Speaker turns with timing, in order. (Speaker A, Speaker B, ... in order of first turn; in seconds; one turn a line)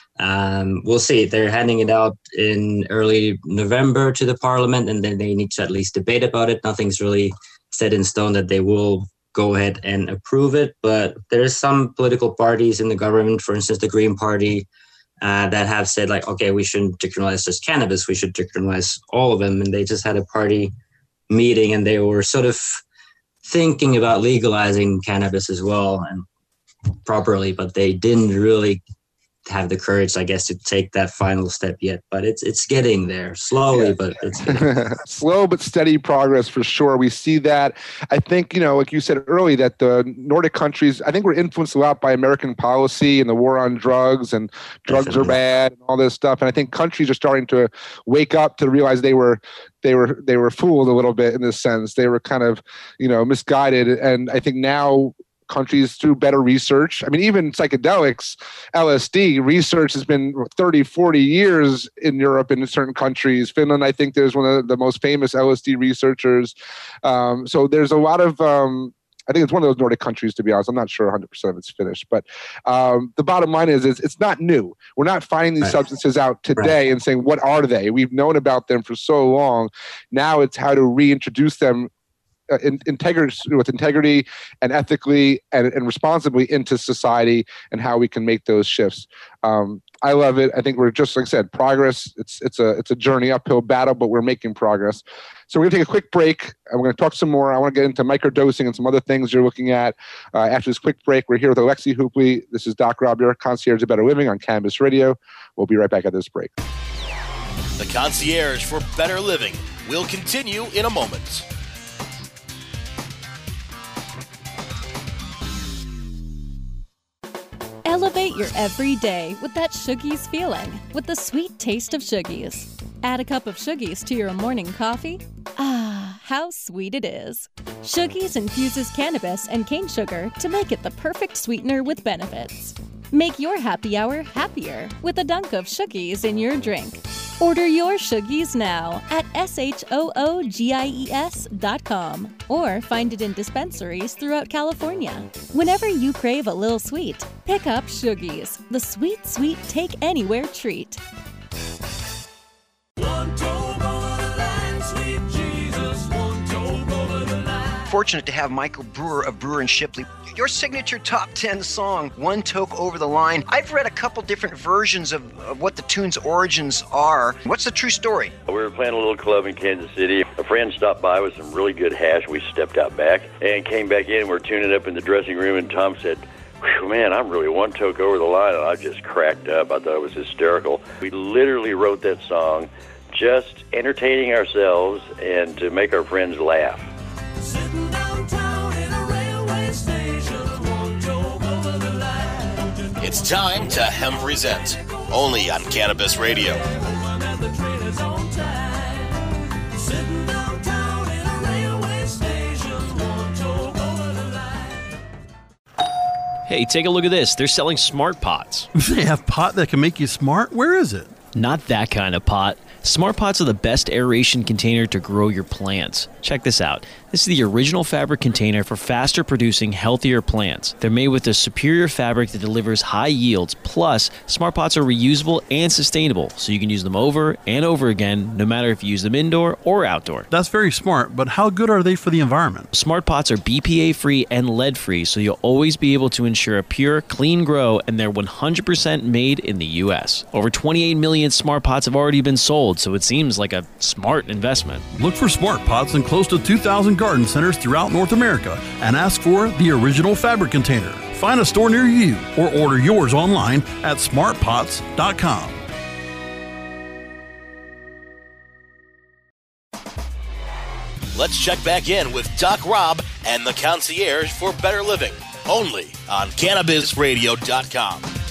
Speaker A: 0.2-14.7
Speaker A: 15.2-20.7
Speaker A: 21.3-22.8
Speaker A: 23.4-26.3
Speaker A: 27.1-28.8
Speaker A: 29.5-34.8
Speaker B: 33.7-81.9
Speaker A: 44.9-45.4
Speaker B: 82.5-106.5
Speaker C: 107.8-111.5
Speaker D: 117.8-151.0
Speaker E: 157.8-168.3
Speaker F: 168.5-186.9
Speaker C: 193.0-196.8
Speaker G: 206.5-208.7
Speaker H: 208.8-211.2
Speaker G: 211.3-230.3
Speaker H: 230.3-232.7
Speaker G: 232.7-244.9
Speaker H: 244.9-255.6
Speaker C: 261.1-268.1